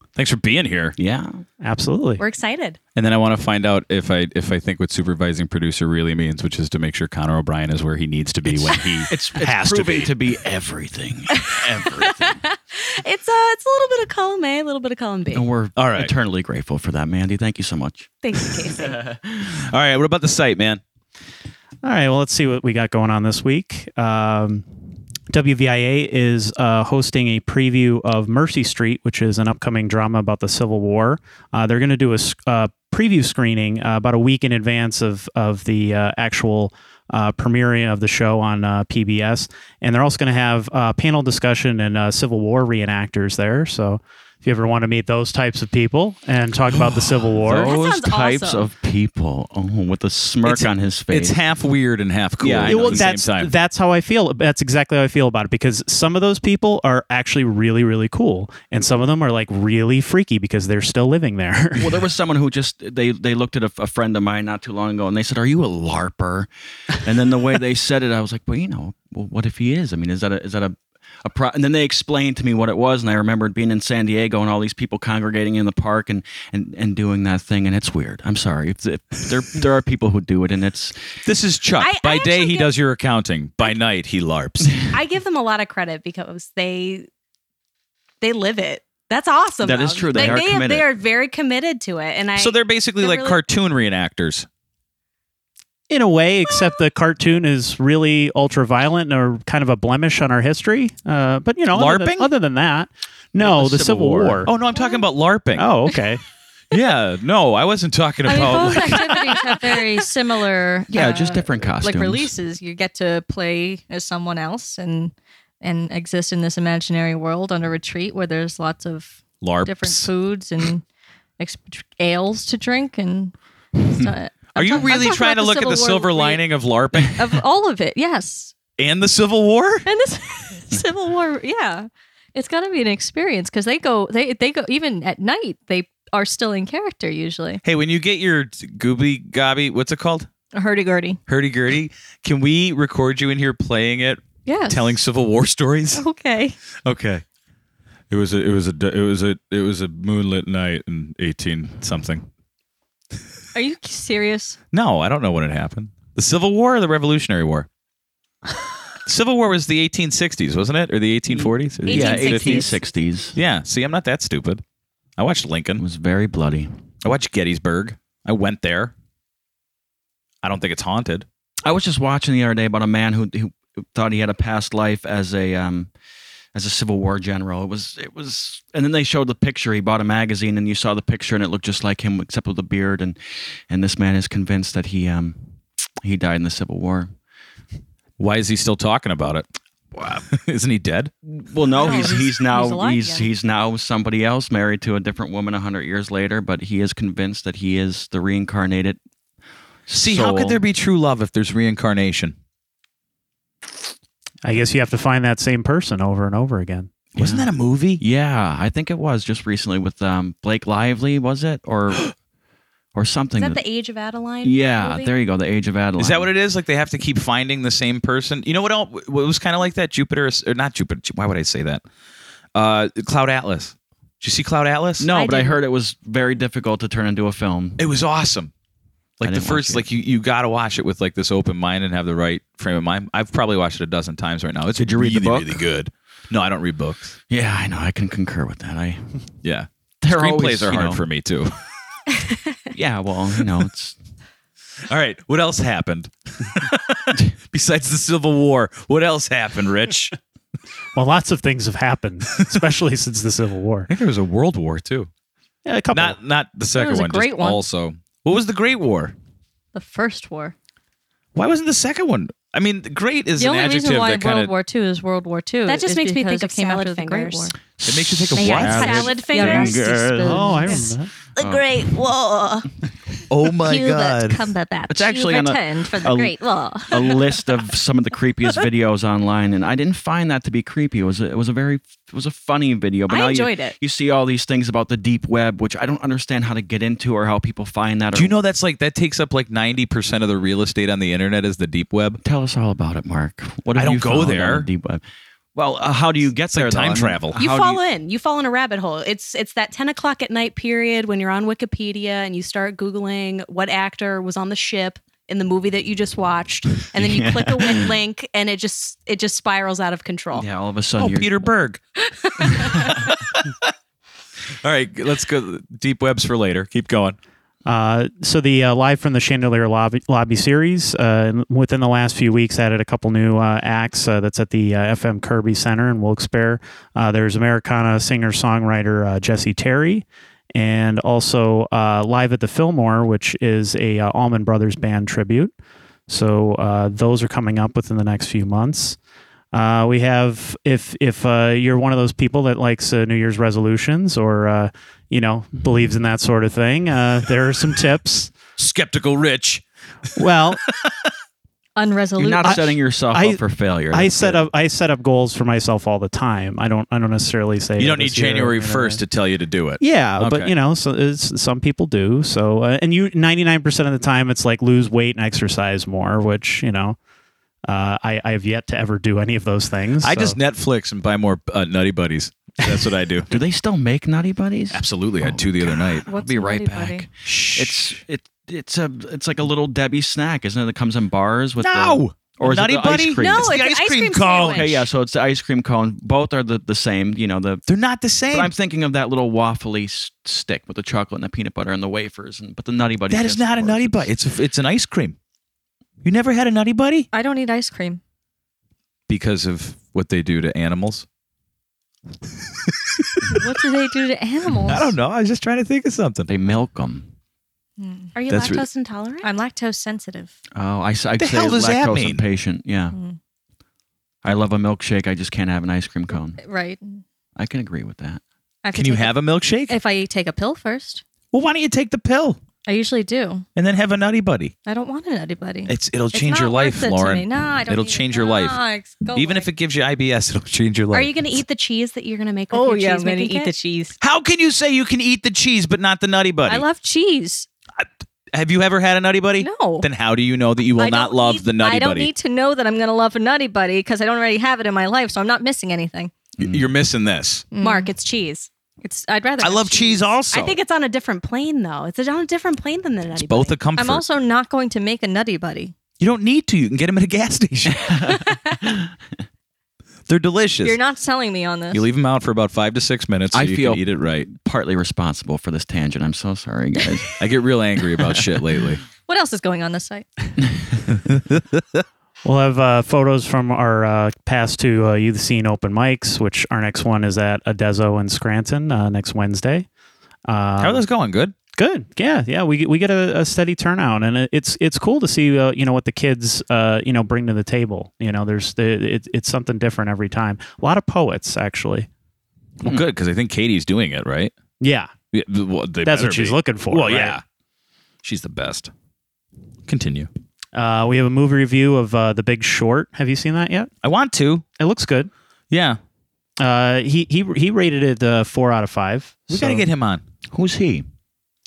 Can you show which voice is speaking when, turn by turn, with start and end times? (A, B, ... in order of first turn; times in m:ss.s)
0:00.2-0:01.0 A
0:01.0-0:01.4 B
0:01.6-0:02.2 C
0:02.2-0:02.8 D
0:02.9-0:10.1 A
0:08.4-0:12.4 B
0:11.3-0:15.5 D
0:15.3-0:18.1 B
0:15.8-0:16.1 A
0:18.2-0:19.0 D
0:18.8-0:19.5 B
0:19.5-0:20.8 A
0:21.8-0:24.7 C
0:25.3-0:47.7 C
0:46.7-0:47.4 A
0:47.4-0:51.4 B
0:47.6-0:48.6 E
0:50.4-0:53.5 A
0:52.4-0:53.1 B
0:52.6-1:02.1 C
1:01.8-1:21.0 B
1:21.2-1:24.8 A
1:21.8-1:22.7 D
1:24.9-1:27.1 D
1:28.2-1:33.4 D
1:29.6-1:30.9 B
1:32.4-1:34.4 A
1:35.9-1:44.5 C
1:41.7-1:42.3 A
1:43.4-1:45.7 A
1:45.5-1:46.2 C
1:46.7-1:49.2 A
1:48.2-2:00.8 E
1:50.9-1:52.3 B
1:59.4-2:00.1 A
2:01.4-2:06.4 E
2:04.5-2:07.2 A
2:07.1-2:08.5 E
2:08.8-2:09.9 A
2:09.8-2:17.6 E
2:17.6-2:20.3 A
2:20.5-2:21.2 E
2:21.3-2:26.0 A
2:24.4-2:25.0 E
2:25.9-2:26.6 E
2:26.8-2:27.2 A
2:28.1-2:32.2 A
2:33.5-2:34.6 E
2:34.7-2:37.7 A
2:39.0-2:42.7 A
2:41.3-2:43.4 B
2:41.9-2:42.7 D
2:41.9-2:42.7 E
2:43.3-2:44.6 A
2:45.2-2:45.8 A
2:45.8-2:46.7 B
2:47.0-2:48.9 A
2:50.4-2:51.2 A
2:51.6-2:55.9 B
2:56.5-3:07.1 B
3:08.2-3:09.5 A
3:09.9-3:10.2 B
3:10.2-3:11.1 A
3:11.3-3:19.0 B
3:11.8-3:13.3 E
3:19.9-3:20.6 B
3:19.9-3:22.3 A
3:24.4-3:26.9 C
3:27.1-3:28.0 A
3:27.2-3:32.1 B
3:32.9-3:33.6 B
3:33.4-3:35.1 D
3:34.4-3:36.3 B
3:36.0-3:41.8 A
3:42.5-3:45.1 A
3:45.0-3:47.8 B
3:45.1-3:45.6 D
3:47.8-3:48.5 A
3:49.2-3:57.2 A
3:49.2-3:49.8 B
3:54.8-3:55.6 B
3:57.3-3:59.0 B
3:59.4-4:01.6 A
4:00.0-4:01.0 B
4:02.7-4:04.0 B
4:04.9-4:10.2 A
4:10.9-4:13.9 C
4:13.9-4:15.1 A
4:15.6-4:16.2 C
4:15.9-4:19.1 A
4:16.7-4:17.6 E
4:19.7-4:20.5 E
4:21.3-4:24.5 A
4:23.4-4:27.5 E
4:25.6-4:27.5 D
4:27.8-4:30.4 B
4:27.8-4:29.6 A
4:28.3-4:32.7 D
4:28.4-4:30.9 E
4:30.2-4:31.1 C
4:31.4-4:31.9 B
4:33.3-4:34.5 A
4:33.6-4:37.2 E
4:33.8-4:36.8 D
4:34.9-4:48.3 B
4:43.1-4:43.8 D
4:48.1-4:52.2 A
4:52.2-4:55.0 B
4:53.7-4:54.7 A
4:55.5-4:57.8 B
4:56.5-4:57.3 A
4:57.3-5:10.4 D
5:06.9-5:07.9 B
5:10.3-5:11.3 B
5:11.0-5:11.8 A
5:12.1-5:12.9 D
5:12.6-5:13.0 B
5:14.6-5:17.2 A
5:17.6-5:35.5 C
5:36.1-5:39.0 C
5:39.5-5:48.3 C
5:48.6-5:49.6 A
5:50.2-5:50.6 C
5:51.8-5:52.6 E
5:52.2-5:54.4 B
5:52.4-5:59.0 C
5:57.8-6:00.5 A
5:59.8-6:07.0 C
6:07.6-6:10.4 C
6:10.0-6:13.4 A
6:13.3-6:23.6 B
6:14.7-6:16.1 A
6:16.1-6:17.1 E
6:17.2-6:18.0 A
6:21.6-6:24.8 A
6:23.2-6:24.8 D
6:24.5-6:27.6 B
6:27.7-6:28.5 A
6:28.3-6:34.1 B
6:33.1-6:35.2 A
6:36.0-6:37.1 A
6:37.1-6:38.0 E
6:39.1-6:41.0 A
6:42.7-6:43.4 A
6:43.3-6:44.9 E
6:44.7-6:46.3 A
6:46.3-6:47.1 B
6:47.8-6:48.1 E
6:48.1-6:49.3 D
6:48.3-6:48.6 A
6:49.2-6:50.4 E
6:50.5-6:53.0 B
6:51.2-6:52.2 A
6:52.9-6:53.2 E
6:54.2-6:56.4 B
6:56.4-6:57.0 E
6:57.4-6:58.2 B
6:58.6-6:59.2 E
6:58.7-6:59.7 A
6:59.7-7:01.0 E
7:01.3-7:02.4 A
7:02.6-7:03.4 E
7:03.6-7:04.5 A
7:04.6-7:09.5 E
7:05.7-7:08.6 A
7:09.1-7:11.2 A
7:10.9-7:13.6 D
7:12.5-7:14.0 E
7:14.0-7:16.6 A
7:16.5-7:17.5 E
7:17.8-7:22.1 A
7:19.4-7:19.9 E
7:20.8-7:26.1 E
7:26.4-7:26.7 B
7:26.4-7:27.4 A
7:27.5-7:27.9 E
7:27.6-7:28.5 D
7:28.8-7:30.0 E
7:29.4-7:30.6 A
7:30.3-7:33.6 D
7:33.1-7:34.0 A
7:33.8-7:35.7 E
7:36.0-7:38.0 A
7:37.8-7:38.1 B
7:40.1-7:40.8 A
7:40.6-7:41.8 E
7:41.7-7:44.3 A
7:43.3-7:47.2 B
7:47.2-7:48.8 A
7:49.1-7:50.0 E
7:51.0-7:51.8 A
7:52.2-7:59.7 C
8:00.3-8:00.8 C
8:00.6-8:01.3 A
8:01.6-8:11.9 C
8:12.6-8:14.3 A
8:14.6-8:14.9 C
8:15.1-8:17.2 A
8:15.8-8:17.2 C
8:18.0-8:18.7 A
8:19.7-8:20.1 A
8:20.5-8:23.7 C
8:23.8-8:24.4 A
8:24.6-8:25.1 C
8:25.5-8:25.8 A
8:26.4-8:29.6 C
8:29.3-8:30.0 A
8:30.3-8:30.8 B